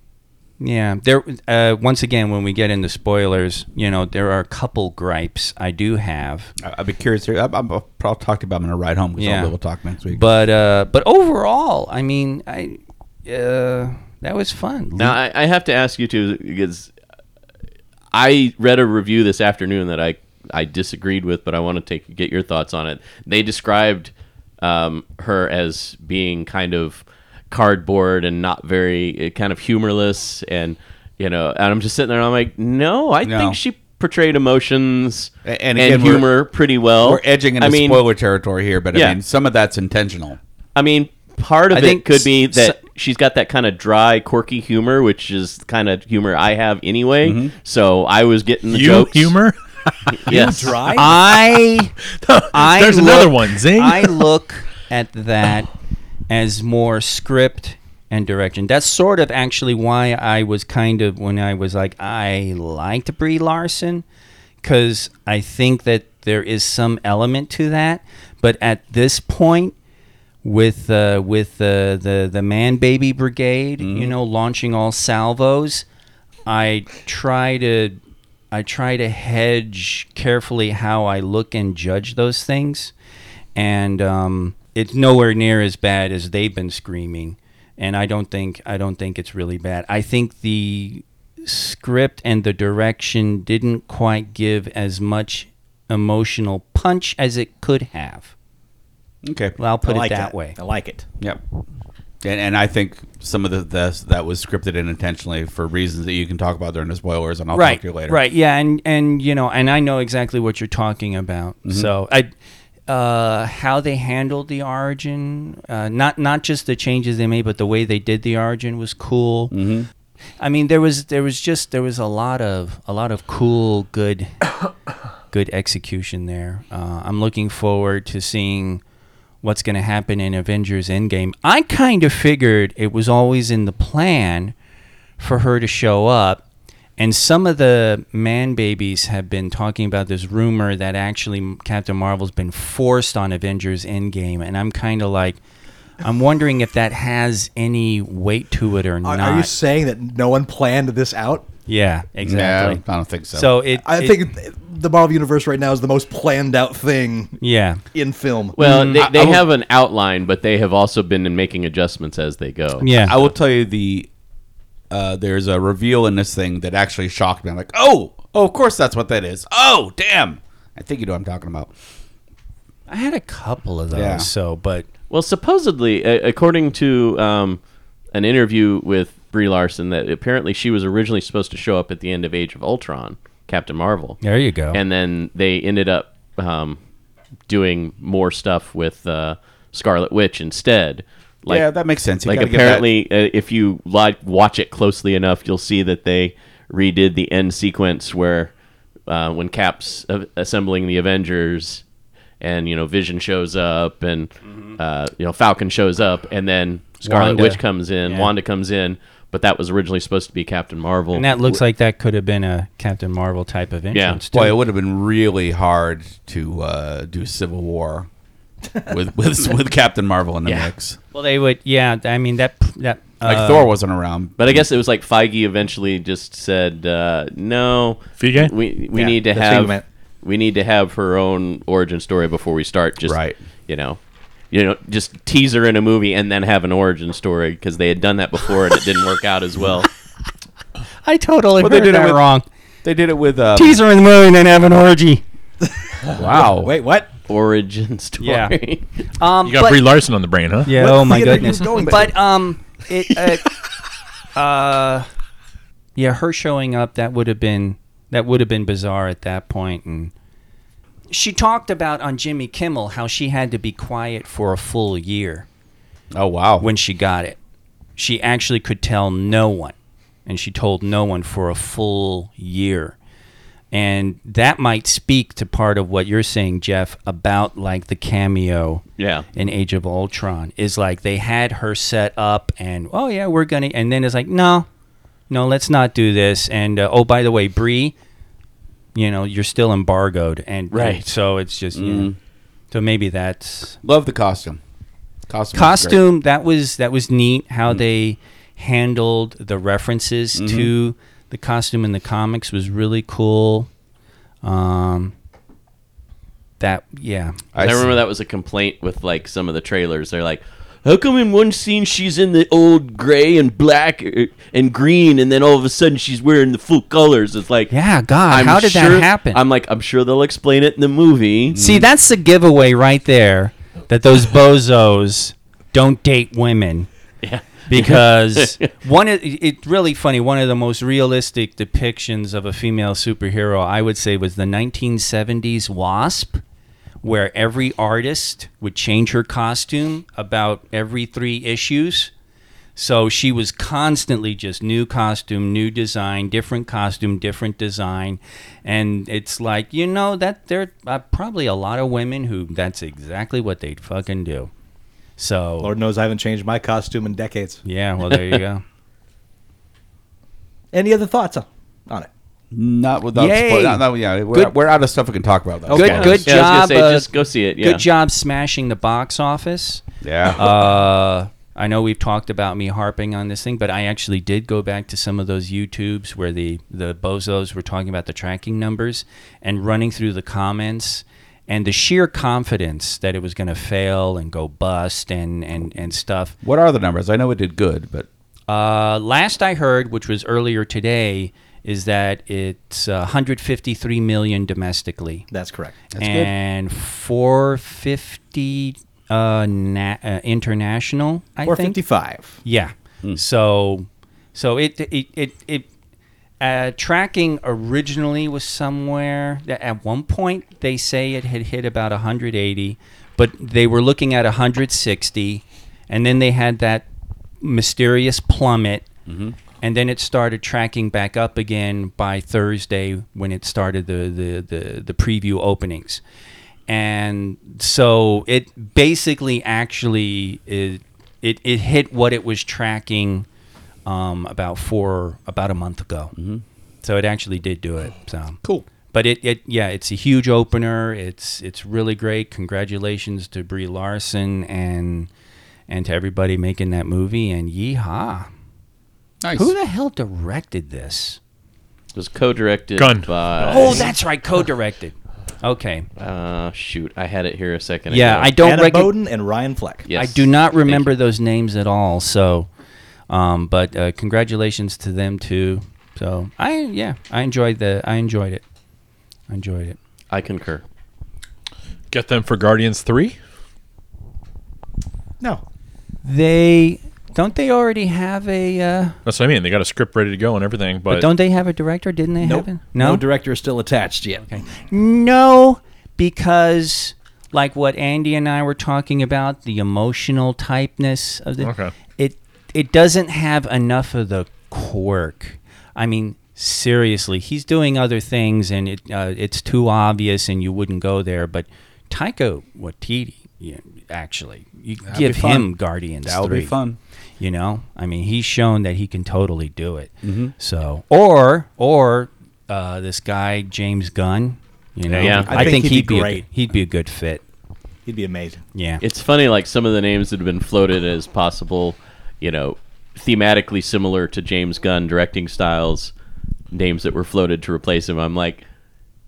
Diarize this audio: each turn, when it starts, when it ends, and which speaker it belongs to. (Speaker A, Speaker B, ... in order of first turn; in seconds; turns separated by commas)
Speaker A: 0.6-6.5, Speaker B: 6.6-10.2, Speaker A: 9.2-9.5, Speaker A: 10.1-15.2, Speaker C: 15.0-16.9, Speaker C: 18.1-38.0, Speaker B: 33.2-33.6, Speaker B: 35.4-36.3, Speaker B: 37.0-40.4, Speaker C: 38.9-39.2, Speaker C: 40.8-49.3, Speaker A: 41.7-42.8, Speaker B: 47.2-47.5, Speaker D: 48.7-50.6, Speaker C: 50.1-50.8, Speaker E: 50.3-51.1, Speaker A: 50.9-51.9, Speaker D: 52.1-54.3, Speaker A: 52.5-55.7, Speaker A: 56.3-64.0, Speaker A: 64.6-69.8, Speaker A: 70.4-75.8, Speaker B: 73.8-74.1, Speaker A: 76.5-78.0, Speaker A: 78.5-82.9, Speaker A: 83.5-98.3, Speaker B: 99.2-99.6, Speaker A: 99.6-100.5, Speaker E: 99.8-101.0, Speaker B: 102.2-108.2, Speaker A: 107.5-112.3, Speaker A: 112.9-119.5, Speaker B: 119.5-119.9, Speaker A: 120.4-124.4, Speaker A: 125.3-128.8, Speaker A: 129.4-134.5, Speaker A: 135.2-136.4, Speaker A: 137.0-145.4, Speaker A: 146.0-149.5, Speaker E: 149.0-151.4, Speaker A: 151.7-154.2, Speaker B: 152.2-153.5, Speaker E: 153.8-157.4, Speaker A: 157.4-157.8, Speaker E: 157.9-158.6, Speaker C: 158.6-162.9, Speaker A: 158.6-159.1, Speaker B: 159.0-159.4, Speaker A: 162.8-163.2, Speaker B: 163.0-164.1, Speaker B: 164.9-171.7, Speaker A: 172.9-174.9, Speaker B: 173.9-174.3, Speaker C: 175.1-177.6, Speaker C: 178.1-184.2, Speaker A: 184.2-184.8, Speaker C: 184.7-186.8, Speaker C: 187.5-191.7, Speaker B: 191.5-192.9, Speaker C: 192.2-198.5, Speaker C: 199.1-201.8, Speaker C: 202.4-211.6, Speaker A: 207.0-208.3, Speaker A: 211.1-214.5, Speaker C: 213.9-214.2, Speaker B: 214.3-218.1, Speaker B: 218.9-221.0, Speaker C: 220.4-220.7, Speaker A: 221.1-223.7, Speaker B: 223.2-224.6, Speaker C: 224.4-234.0, Speaker D: 228.2-228.5, Speaker E: 228.9-229.8, Speaker B: 233.0-233.4, Speaker C: 234.5-239.9, Speaker A: 241.0-242.4, Speaker B: 241.6-242.2, Speaker B: 242.8-243.8, Speaker A: 243.5-245.2, Speaker B: 246.1-246.7, Speaker E: 246.2-247.1, Speaker C: 247.3-248.9, Speaker A: 248.2-248.6, Speaker A: 249.1-249.8, Speaker D: 249.4-250.8, Speaker A: 250.6-253.5, Speaker E: 250.7-252.1, Speaker A: 254.3-255.1, Speaker A: 255.9-260.1, Speaker A: 261.1-265.5, Speaker B: 266.1-266.7, Speaker A: 266.6-267.4, Speaker A: 268.0-273.0, Speaker A: 273.7-278.8, Speaker C: 279.0-279.2, Speaker A: 279.3-284.7, Speaker A: 285.3-287.9, Speaker A: 288.9-292.1, Speaker C: 290.7-291.0, Speaker B: 291.8-292.1, Speaker A: 292.7-293.8, Speaker B: 293.8-294.6, Speaker B: 295.3-296.0, Speaker A: 295.5-303.7, Speaker B: 300.4-300.7, Speaker A: 304.4-305.1, Speaker A: 306.6-307.5, Speaker B: 307.5-307.9, Speaker C: 307.6-317.7, Speaker A: 317.7-319.4, Speaker C: 318.3-321.6, Speaker B: 321.5-321.9, Speaker A: 321.5-326.9, Speaker C: 327.2-328.7, Speaker A: 327.7-336.4, Speaker A: 337.0-342.1, Speaker A: 342.8-354.5, Speaker A: 355.2-355.7, Speaker E: 355.6-357.6, Speaker A: 357.6-358.6, Speaker E: 360.7-362.1, Speaker B: 362.5-366.2, Speaker A: 363.1-364.5, Speaker A: 365.7-386.4, Speaker E: 365.7-366.2, Speaker C: 365.7-367.9, Speaker B: 370.0-370.5, Speaker B: 386.4-388.1, Speaker A: 388.5-395.2, Speaker E: 395.3-395.8, Speaker B: 395.9-396.3, Speaker A: 396.0-401.8, Speaker E: 401.4-402.4, Speaker A: 402.4-405.7, Speaker A: 406.4-416.9, Speaker A: 417.4-418.9, Speaker B: 419.1-419.4, Speaker A: 419.6-426.0, Speaker A: 426.7-433.3, Speaker A: 433.9-436.1, Speaker B: 436.1-436.4, Speaker A: 436.8-438.4, Speaker A: 438.9-445.1, Speaker A: 445.7-448.3, Speaker B: 449.2-449.5, Speaker A: 449.4-451.2, Speaker C: 451.9-453.9, Speaker D: 452.8-453.9, Speaker A: 453.4-455.9, Speaker C: 456.0-458.3, Speaker A: 457.9-458.9, Speaker E: 458.4-459.9, Speaker C: 459.9-460.9, Speaker A: 459.9-462.5, Speaker A: 463.1-468.4, Speaker A: 469.3-469.8, Speaker C: 470.1-470.6, Speaker D: 471.9-473.2, Speaker A: 476.1-479.0, Speaker D: 479.1-481.1, Speaker A: 480.9-483.0, Speaker E: 482.2-484.4, Speaker A: 484.3-506.6, Speaker D: 491.4-491.7, Speaker B: 504.9-506.8, Speaker A: 507.2-517.2, Speaker B: 510.0-510.3, Speaker E: 514.9-516.2, Speaker C: 515.0-515.6, Speaker E: 517.9-518.4, Speaker A: 518.5-518.8, Speaker C: 518.8-525.9, Speaker C: 526.5-528.4